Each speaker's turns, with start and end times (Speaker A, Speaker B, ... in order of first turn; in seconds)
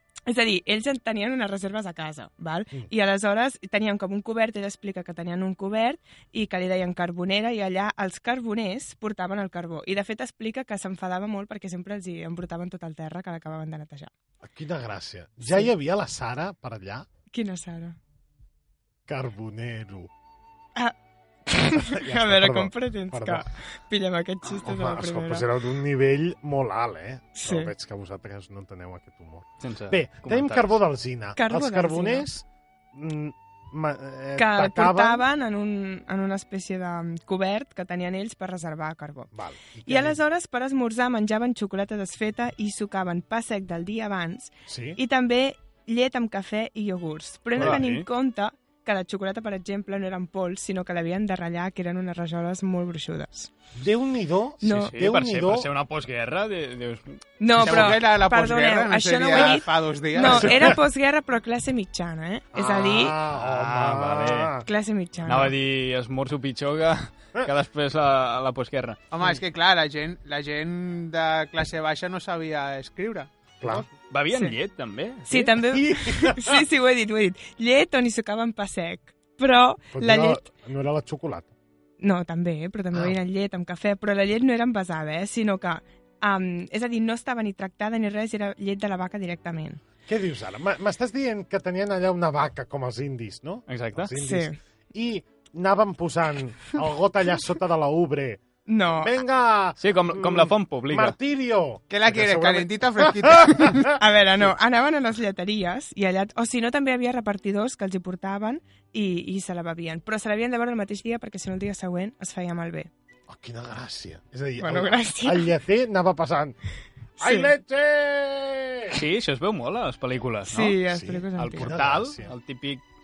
Speaker A: 0.3-14.1, 15.4-15.7, 17.3-18.0, 21.5-25.5, 27.3-27.7, 31.4-32.3, 34.4-39.3, 39.9-53.5, 57.4-63.1, 64.7-65.5, 74.3-74.6, 75.3-80.4, 82.0-89.8, 94.2-94.6, 98.7-99.1, 103.9-112.9, 114.6-115.5, 117.2-117.5, 120.5-121.8
Speaker B: 14.4-17.1, 19.1-20.1, 21.8-23.4, 24.4-35.2, 39.3-40.2, 44.7-45.0, 47.5-47.8, 53.7-55.7, 57.7-57.9, 59.3-59.6, 60.1-60.8, 62.5-64.7, 73.6-73.8, 75.3-76.6, 79.9-81.5, 82.9-83.2, 90.0-103.9, 113.3-116.6, 117.2-119.0, 120.9-122.3
Speaker C: 29.6-30.8, 47.6-48.0, 54.6-57.9, 62.6-64.5, 65.2-69.4, 74.1-75.5, 93.7-94.1, 99.8-101.2, 118.9-120.8, 121.3-122.8
Speaker D: 57.6-60.7, 69.1-73.3, 101.9-104.0